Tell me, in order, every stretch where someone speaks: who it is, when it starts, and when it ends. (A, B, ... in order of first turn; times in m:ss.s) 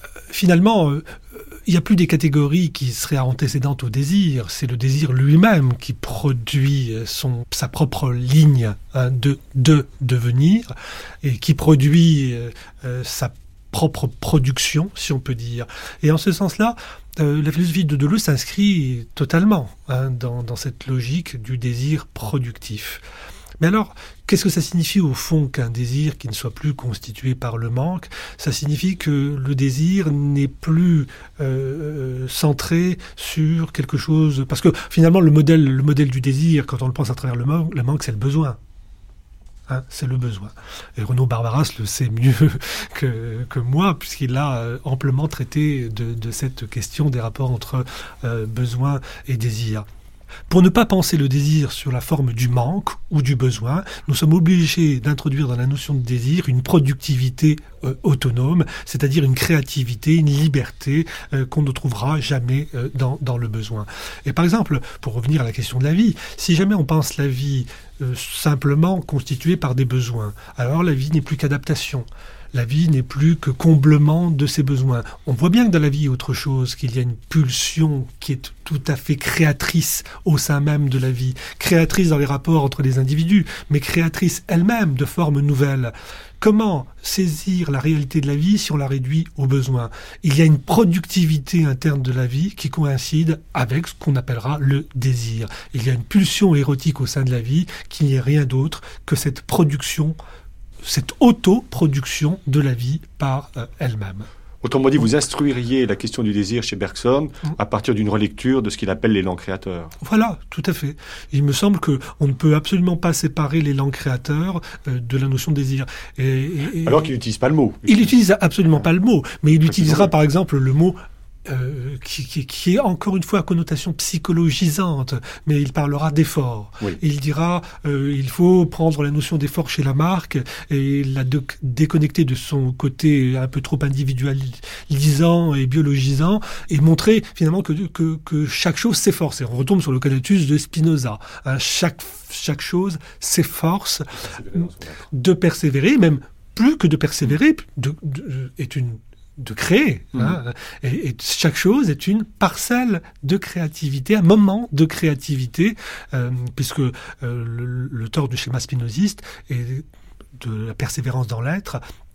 0:00.3-0:23.0 A
0:23.6-0:38.6 A
0:39.7-0:49.8 A
0:50.5-1:40.2 A
1:40.8-1:44.3 A
1:44.6-1:49.9 B
1:50.0-1:57.1 A
1:56.8-1:58.0 B
1:57.8-2:39.8 A
1:59.6-2:00.1 B
2:24.3-2:24.9 B
2:40.4-2:41.8 A